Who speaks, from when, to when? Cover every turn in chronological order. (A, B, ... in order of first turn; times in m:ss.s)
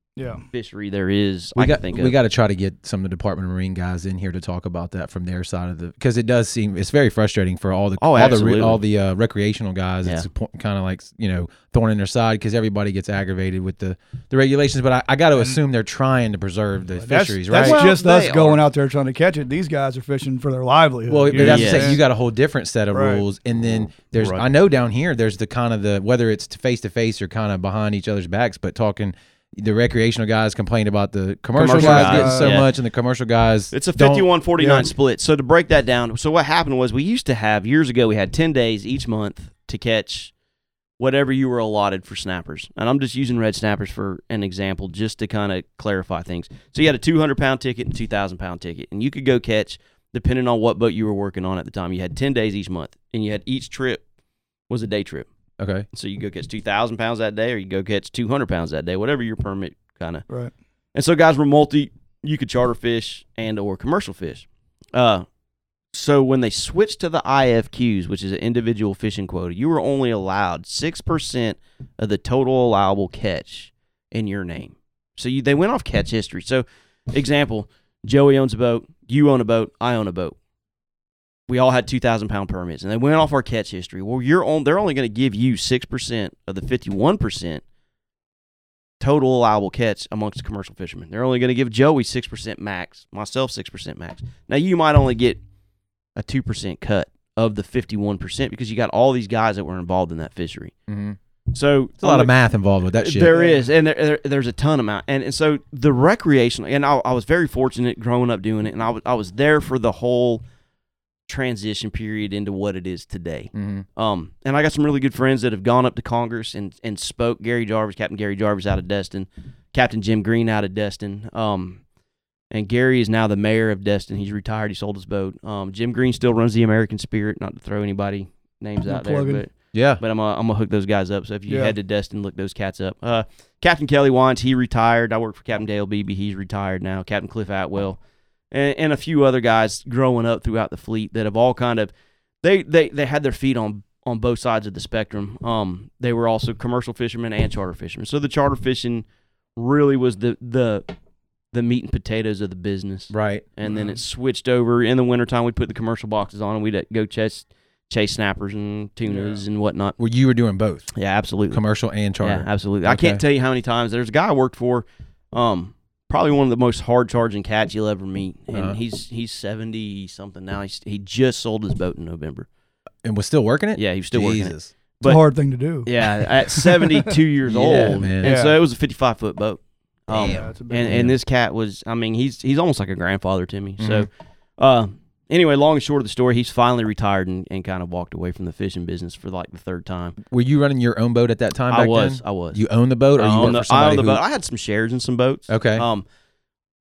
0:00.2-0:00.4 A
0:00.5-0:02.2 B
0:01.6-0:17.8 C
0:08.0-0:08.8 B
0:17.0-0:22.0 A
0:17.5-0:18.6 B
0:21.1-0:34.3 C
0:21.3-0:22.0 B
0:22.9-0:23.2 A
0:24.2-0:24.4 B
0:31.6-0:32.7 B
0:31.7-0:32.6 A
0:33.7-0:40.3 B
0:34.6-0:34.9 A
0:41.0-0:54.0 B
0:54.7-0:55.3 B
0:55.6-0:55.9 C
0:55.9-1:00.2 B
1:01.0-1:05.2 B
1:05.9-1:20.4 B
1:21.5-1:27.6 B
1:29.0-1:35.4 B
1:36.2-1:40.7 B
1:40.9-1:41.2 C
1:41.5-1:42.3 B
1:42.0-1:43.4 C
1:43.0-1:50.4 B
1:43.3-1:43.7 A
1:51.3-2:01.8 B
1:53.5-1:53.9 C
2:02.5-2:18.0 B
2:08.9-2:09.4 A
2:09.7-2:10.0 C
2:11.5-2:11.8 A
2:18.5-2:21.9 B
2:22.4-2:29.0 B
2:29.6-2:30.8 B
2:31.5-2:40.0 B
2:33.1-2:33.4 C
2:33.6-2:34.0 A
2:39.1-2:39.4 A
2:40.0-2:40.9 C
2:40.9-2:41.6 B
2:41.5-2:43.2 C
2:42.2-2:52.5 B
2:53.0-2:54.7 C
2:53.8-2:55.2 B
2:55.0-2:57.2 A
2:55.8-3:10.2 B
2:57.5-2:58.4 C
2:58.2-2:58.6 A
3:00.1-3:01.1 C
3:00.2-3:01.1 A
3:03.8-3:04.1 C
3:10.2-3:14.2 C
3:11.7-3:12.6 B
3:13.2-3:16.0 B
3:15.5-3:15.9 C